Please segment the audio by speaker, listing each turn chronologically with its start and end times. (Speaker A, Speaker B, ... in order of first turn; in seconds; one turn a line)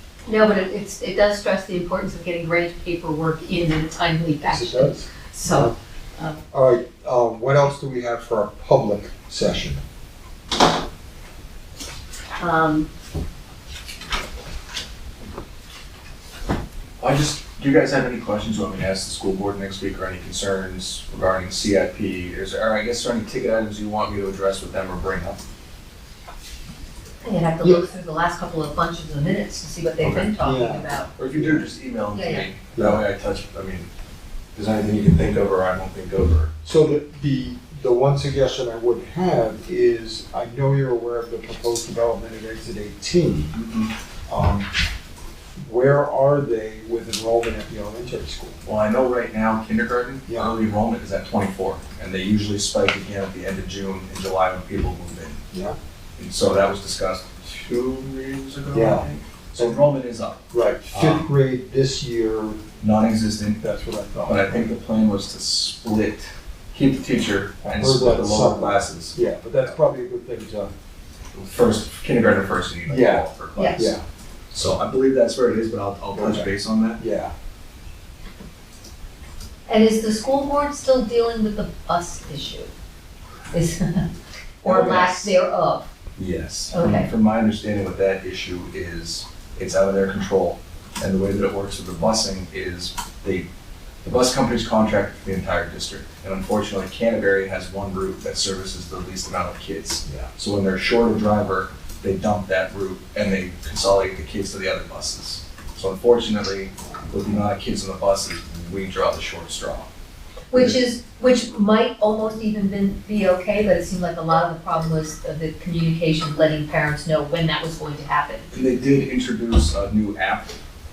Speaker A: 0.2-6.4
Speaker B: 4.4-5.7
Speaker B: 6.5-9.8
Speaker A: 12.4-12.9
Speaker C: 17.0-25.4
Speaker A: 27.2-31.1
Speaker C: 30.0-30.4
Speaker B: 30.4-31.6
Speaker C: 31.2-33.9
Speaker A: 32.1-32.5
Speaker B: 32.7-33.0
Speaker C: 34.5-36.5
Speaker B: 36.6-43.5
Speaker C: 43.5-43.9
Speaker B: 44.3-44.7
Speaker B: 45.6-48.6
Speaker C: 48.6-55.4
Speaker B: 50.3-50.5
Speaker B: 55.5-55.8
Speaker C: 56.2-60.4
Speaker B: 58.7-59.9
Speaker B: 60.5-62.6
Speaker C: 60.9-61.2
Speaker C: 62.8-63.6
Speaker B: 63.6-64.7
Speaker C: 64.2-69.8
Speaker B: 67.6-70.7
Speaker C: 71.3-74.0
Speaker B: 72.8-74.0
Speaker A: 73.5-73.9
Speaker C: 74.5-77.0
Speaker B: 76.1-77.3
Speaker A: 79.7-82.7
Speaker A: 83.5-84.0
Speaker A: 84.6-85.9
Speaker C: 84.7-85.3
Speaker C: 86.2-93.5
Speaker A: 86.7-87.1
Speaker C: 94.0-109.9
Speaker A: 110.5-118.5
Speaker C: 118.5-120.5